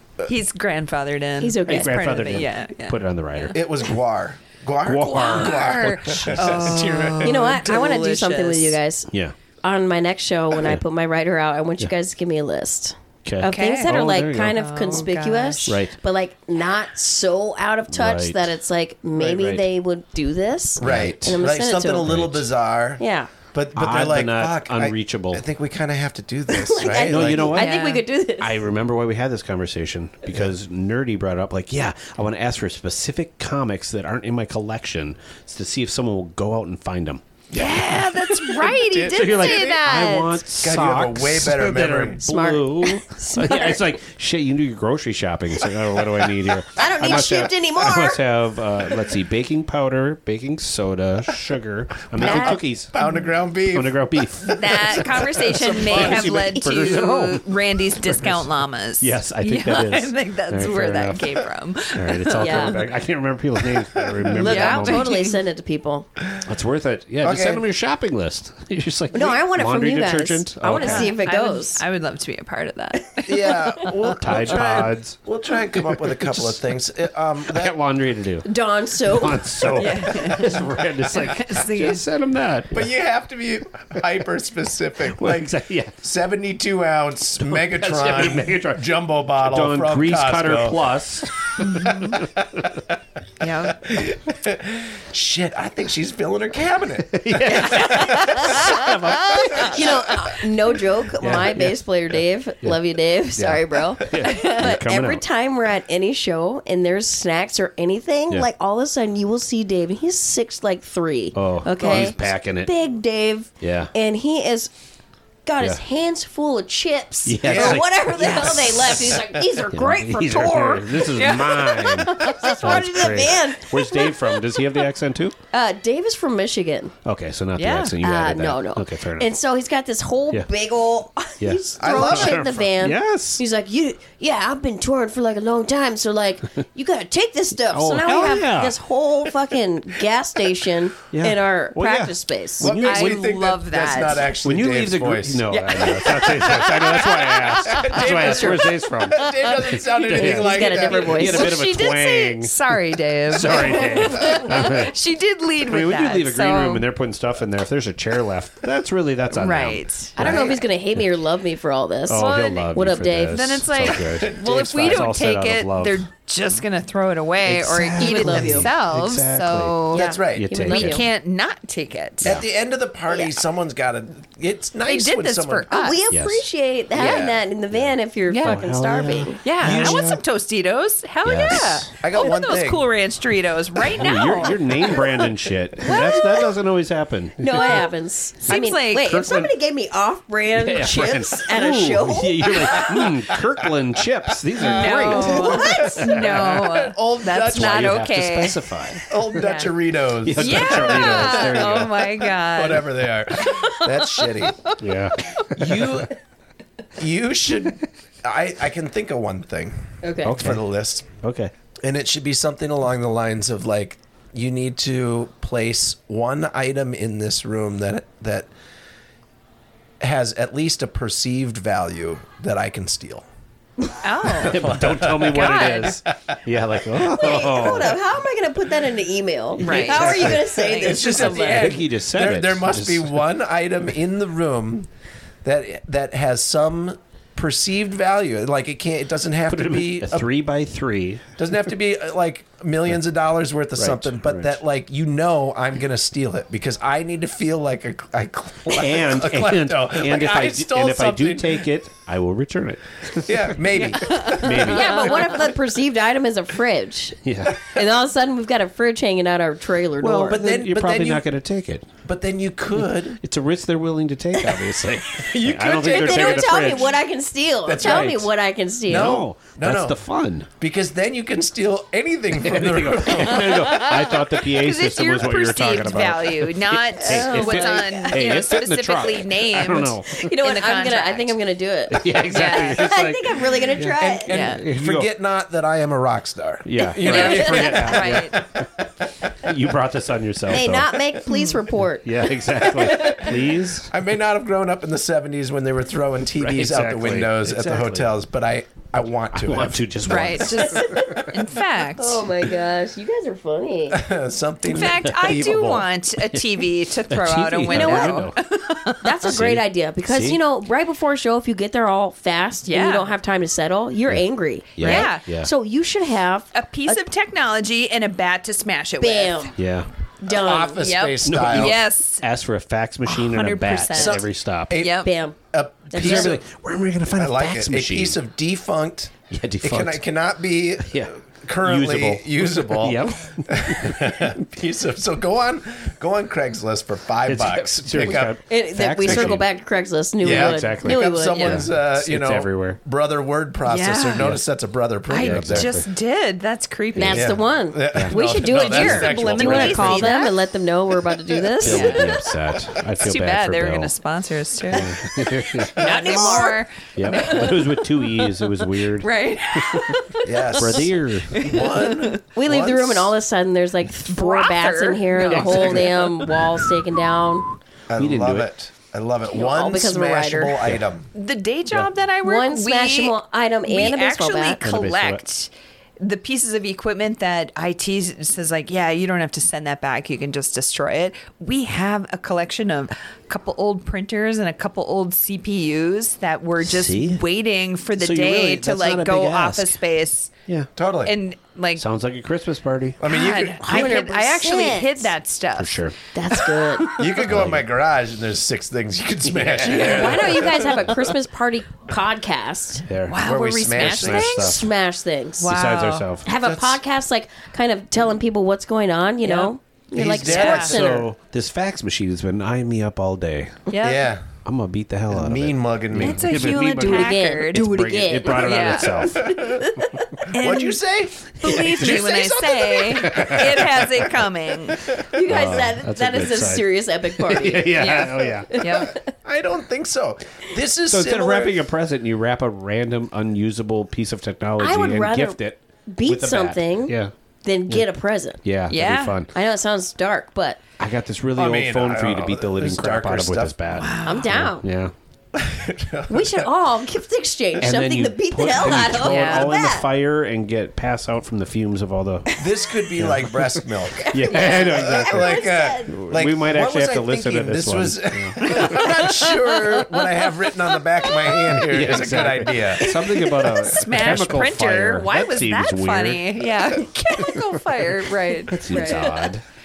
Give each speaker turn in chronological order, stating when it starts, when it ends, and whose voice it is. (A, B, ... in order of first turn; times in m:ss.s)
0:00.2-0:03.6 A
0:01.4-0:02.0 B
0:01.7-0:03.6 C
0:03.5-0:07.6 D
0:04.8-0:06.8 C
0:05.0-0:08.8 A
0:07.2-0:09.1 B
0:09.6-0:22.1 B
0:10.5-0:10.8 C
0:13.2-0:14.6 C
0:13.4-0:13.9 A
0:14.5-0:15.8 A
0:15.7-0:15.9 C
0:17.9-0:18.4 C
0:19.2-0:19.6 C
0:20.8-0:21.4 C
0:20.8-0:23.0 D
0:22.0-0:22.4 C
0:23.0-0:23.3 B
0:23.5-0:27.6 D
0:23.8-0:25.4 C
0:26.5-0:28.6 B
0:26.9-0:27.7 C
0:27.6-0:28.0 A
0:28.4-0:37.2 C
0:37.5-0:39.8 D
0:37.5-0:40.4 A
0:39.1-0:52.9 C
0:40.6-0:42.2 D
0:42.2-0:43.8 B
0:46.7-0:48.2 B
0:52.1-0:53.2 B
0:52.2-0:56.4 D
0:53.7-0:57.4 C
0:54.4-1:02.8 A
0:59.0-1:01.3 C
1:01.9-1:05.2 C
1:02.4-1:02.8 B
1:04.3-1:05.4 A
1:04.4-1:06.1 B
1:06.4-1:11.1 C
1:07.2-1:07.6 D
1:09.1-1:11.8 B
1:10.7-1:13.9 A
1:13.2-1:17.8 D
1:14.2-1:15.2 C
1:15.7-1:16.6 C
1:17.5-1:18.5 C
1:18.4-1:20.2 B
1:19.0-1:22.9 C
1:19.8-1:22.0 A
1:22.7-1:32.6 D
1:25.2-1:25.9 C
1:27.4-1:31.5 C
1:31.6-1:32.2 A
1:32.4-1:32.8 C
1:33.4-1:33.8 A
1:33.6-1:38.2 D
1:37.1-1:39.9 C
1:37.4-1:39.7 A
1:39.5-1:39.8 D
1:39.6-1:54.7 B
1:41.2-1:41.8 C
1:43.4-1:45.2 C
1:51.3-1:52.7 C
1:53.6-1:53.9 C
1:55.4-2:04.6 B
1:57.2-2:05.4 C
1:57.4-1:59.5 D
2:01.1-2:02.9 A
2:05.5-2:06.9 B
2:07.0-2:09.3 C
2:07.6-2:07.9 A
2:08.0-2:22.7 B
2:11.4-2:13.4 C
2:11.8-2:12.7 D
2:17.7-2:18.8 C
2:21.1-2:23.2 C
2:22.6-2:25.4 D
2:22.7-2:24.3 A
2:24.4-2:29.3 C
2:25.5-2:25.9 A
2:25.6-2:27.0 B
2:26.9-2:28.3 A
2:27.6-2:31.4 D
2:28.2-2:28.5 B
2:30.1-2:32.5 C
2:30.1-2:31.5 B
2:31.0-2:36.8 A
2:33.3-2:34.9 C
2:35.6-2:40.6 C
2:39.3-2:40.6 A
2:40.2-2:43.6 B
2:42.1-2:46.0 C
2:42.1-2:42.7 A
2:43.3-2:50.0 A
2:44.0-2:44.7 D
2:47.6-2:51.0 C
2:48.0-2:48.7 B
2:49.9-2:50.7 D
2:49.9-2:51.0 B
2:50.7-2:52.4 A
2:52.2-2:55.7 D
2:53.1-2:53.4 B
2:54.8-2:56.0 A
2:55.7-2:59.4 B
2:56.1-2:56.4 C
2:56.9-2:57.4 D
2:58.3-2:58.6 A
2:58.4-3:00.2 C
2:59.4-3:05.1 A
2:59.6-3:00.1 D
3:01.2-3:01.9 C
3:02.0-3:02.9 D
3:03.9-3:07.9 C
3:05.8-3:06.5 B
3:07.4-3:13.0 B
3:08.4-3:09.2 A
3:08.9-3:09.5 C
3:10.5-3:16.6 C
3:14.6-3:18.7 A
3:14.6-3:18.0 D
3:15.1-3:15.8 B
3:17.5-3:19.1 C
3:19.0-3:24.7 D
3:19.3-3:19.7 A
3:20.2-3:22.2 C
3:20.4-3:24.8 A
3:24.8-3:26.0 C
3:25.5-3:26.1 D
3:27.0-3:31.1 D
3:30.0-3:30.4 B
3:30.2-3:30.7 C
3:31.2-3:31.5 C
3:31.8-3:38.5 D
3:40.0-3:43.2 D
3:44.0-3:44.7 A
3:44.3-3:45.7 D
3:44.4-3:48.0 C
3:45.2-3:46.0 A
3:47.0-3:51.7 B
3:49.6-3:51.7 A
3:49.6-3:50.4 C
3:49.7-3:54.9 D
3:51.3-3:53.2 C
3:55.4-4:00.3 D
3:59.5-4:01.3 C
4:01.4-4:11.7 D
4:03.8-4:04.6 C
4:08.7-4:15.3 C
4:13.2-4:14.5 D
4:14.0-4:15.3 A
4:14.3-4:20.4 B
4:17.2-4:17.6 C
4:20.0-4:21.9 C
4:20.3-4:21.2 D
4:22.0-4:23.2 D
4:23.2-4:27.0 C
4:25.2-4:26.8 D
4:25.8-4:29.2 B
4:27.6-4:28.3 D
4:27.8-4:28.3 C
4:28.9-4:30.0 D
4:28.9-4:30.5 C
4:30.6-4:33.9 D
4:32.4-4:40.2 C
4:33.7-4:41.3 A
4:37.0-4:38.3 B
4:40.1-4:44.3 B
4:41.9-4:45.1 C
4:42.1-4:42.9 A
4:43.8-4:48.8 D
4:44.3-4:44.6 A
4:46.6-4:51.0 C
4:47.0-4:48.4 A
4:50.5-4:53.4 B
4:52.0-4:53.9 C
4:53.9-5:00.5 D
4:56.4-4:58.2 C
4:59.3-5:01.2 C
5:00.0-5:02.2 A
5:00.7-5:01.3 B
5:02.0-5:04.0 B
5:03.9-5:05.9 D
5:04.7-5:09.0 A
5:07.1-5:08.4 C
5:07.7-5:08.2 B
5:09.0-5:17.1 B
5:09.2-5:10.4 C
5:12.6-5:13.1 A
5:14.8-5:15.5 C
5:14.8-5:15.2 A
5:16.5-5:19.5 A
5:19.0-5:19.5 B
5:19.6-5:19.9 C
5:20.2-5:20.8 B
5:20.2-5:21.8 D
5:20.8-5:22.2 A
5:21.2-5:24.8 C
5:23.0-5:25.1 A
5:23.9-5:26.4 D
5:25.0-5:25.4 B
5:25.9-5:26.3 B
5:25.9-5:28.2 C
5:27.1-5:38.4 D
5:29.3-5:30.0 C
5:30.8-5:34.2 C
5:37.2-5:39.4 C
5:38.0-5:41.6 B
5:39.0-5:39.4 D
5:40.2-5:42.8 C
5:40.2-5:45.7 D
5:41.3-5:41.6 A
5:43.6-5:44.4 A
5:45.1-5:47.4 A
5:45.2-5:45.8 C
5:46.9-5:52.0 B
5:47.1-5:50.2 D
5:48.5-5:50.4 A
5:48.7-5:49.8 C
5:51.6-5:53.9 C
5:51.6-5:52.2 A
5:53.0-5:54.9 A
5:54.7-5:55.8 C
5:55.6-6:02.2 A
5:55.7-5:56.6 B
5:55.8-5:56.0 D
5:56.9-5:59.9 C
6:00.2-6:03.1 D
6:00.5-6:01.5 C
6:02.3-6:07.5 B
6:04.1-6:06.3 A
6:05.3-6:05.8 C
6:07.9-6:11.1 D
6:08.0-6:08.5 C
6:09.3-6:10.6 B
6:11.1-6:30.3 A
6:12.2-6:14.6 B
6:14.6-6:15.2 C
6:26.6-6:27.2 C
6:28.0-6:29.8 C
6:30.8-6:31.2 D
6:31.0-6:31.8 A
6:31.8-6:33.0 C
6:33.0-6:34.0 D
6:33.1-6:35.9 A
6:33.6-6:35.1 B
6:35.6-6:35.9 C
6:36.1-6:36.9 B
6:36.8-6:37.7 C
6:36.9-6:40.9 D
6:39.3-6:40.7 C
6:39.7-6:42.8 B
6:42.9-6:44.7 C
6:43.1-6:44.7 A
6:43.2-6:44.4 D
6:44.3-6:45.5 B
6:45.4-6:46.1 A
6:45.4-6:46.2 C
6:46.2-6:51.1 B
6:46.3-6:46.8 D
6:49.2-6:49.5 A
6:49.9-6:51.0 D
6:50.3-6:50.8 A
6:50.3-6:53.6 C
6:53.7-6:54.1 A
6:53.8-6:54.4 D
6:54.4-6:59.5 C
6:55.1-6:56.3 D
6:56.0-6:57.7 A
6:56.8-6:59.0 B
6:58.2-6:59.4 A
6:59.1-6:59.7 D
7:00.3-7:00.8 A
7:00.3-7:04.0 D
7:01.3-7:04.9 A
7:02.9-7:03.6 C
7:05.0-7:09.0 B
7:05.2-7:08.6 C
7:07.7-7:08.9 A
7:09.1-7:11.7 D
7:10.9-7:17.1 C
7:14.6-7:15.4 B
7:15.9-7:18.4 B
7:18.4-7:19.3 C
7:18.7-7:19.2 A
7:19.3-7:20.6 B
7:20.8-7:24.9 C
7:21.3-7:23.6 D
7:23.7-7:24.3 A
7:24.0-7:24.6 B
7:25.3-7:26.5 D
7:26.1-7:29.9 B
7:27.6-7:32.3 C
7:28.8-7:29.5 A
7:32.4-7:43.0 D
7:33.0-7:33.5 C
7:34.0-7:35.9 B
7:34.1-7:38.6 C
7:38.6-7:39.5 A
7:41.6-7:46.2 C
7:42.8-7:49.2 A
7:48.5-7:49.4 C
7:48.7-7:49.3 B